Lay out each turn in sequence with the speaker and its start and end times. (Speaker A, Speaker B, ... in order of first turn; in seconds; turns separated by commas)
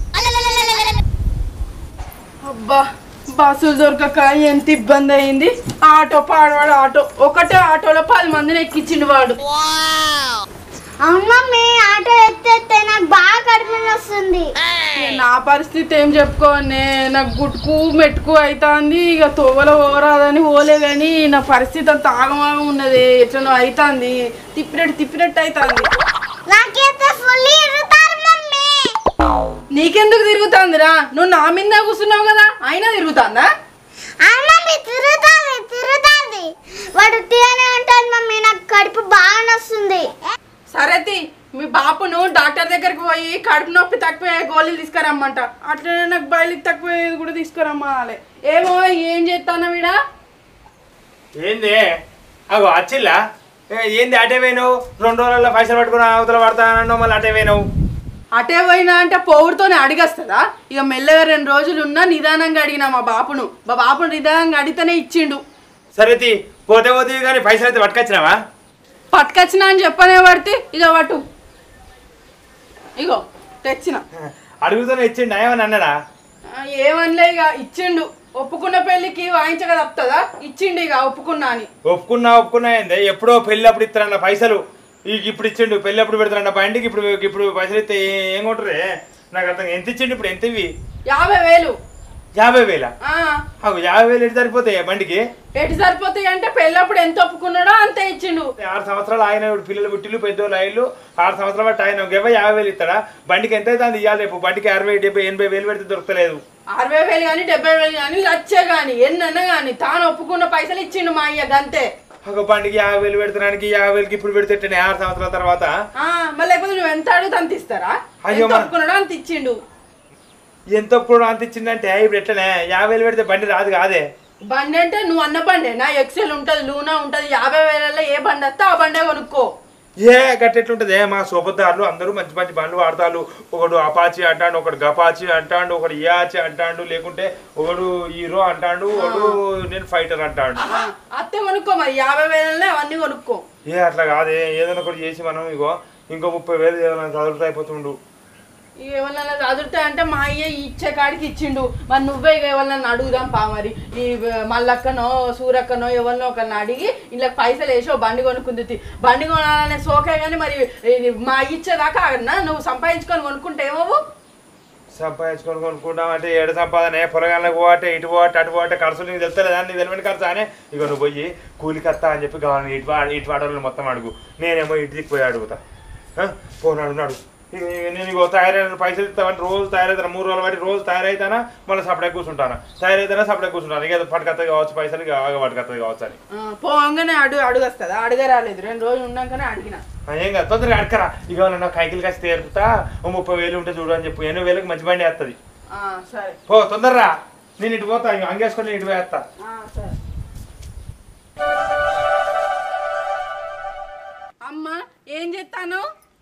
Speaker A: 2.4-9.4, Speaker B: 11.0-14.5, Speaker A: 14.9-25.9, Speaker B: 26.5-28.9, Speaker A: 29.7-33.5, Speaker B: 34.2-40.1, Speaker A: 40.7-50.0, Speaker C: 51.4-51.9, Speaker C: 52.5-53.2, Speaker C: 53.7-57.6, Speaker A: 58.4-65.4, Speaker C: 66.0-68.4, Speaker A: 69.1-71.2, Speaker A: 73.0-74.0, Speaker C: 74.3-76.0, Speaker A: 76.5-81.7, Speaker C: 81.9-90.7, Speaker A: 91.1-91.8, Speaker C: 92.4-92.9, Speaker A: 93.0-93.4, Speaker C: 93.6-95.2, Speaker A: 95.6-98.5, Speaker C: 98.6-106.4, Speaker A: 106.8-111.9, Speaker C: 112.3-115.7, Speaker A: 116.0-119.6, Speaker C: 118.2-118.7, Speaker C: 120.8-124.1, Speaker A: 124.5-129.5, Speaker C: 130.0-140.8, Speaker A: 139.0-139.3, Speaker A: 140.6-143.4, Speaker C: 143.7-148.0, Speaker A: 148.8-164.0, Speaker C: 164.9-175.6, Speaker C: 176.2-186.2, Speaker A: 186.3-189.8, Speaker C: 190.1-195.4, Speaker A: 195.7-196.4, Speaker C: 196.5-199.2, Speaker A: 199.4-200.0, Speaker A: 204.4-205.9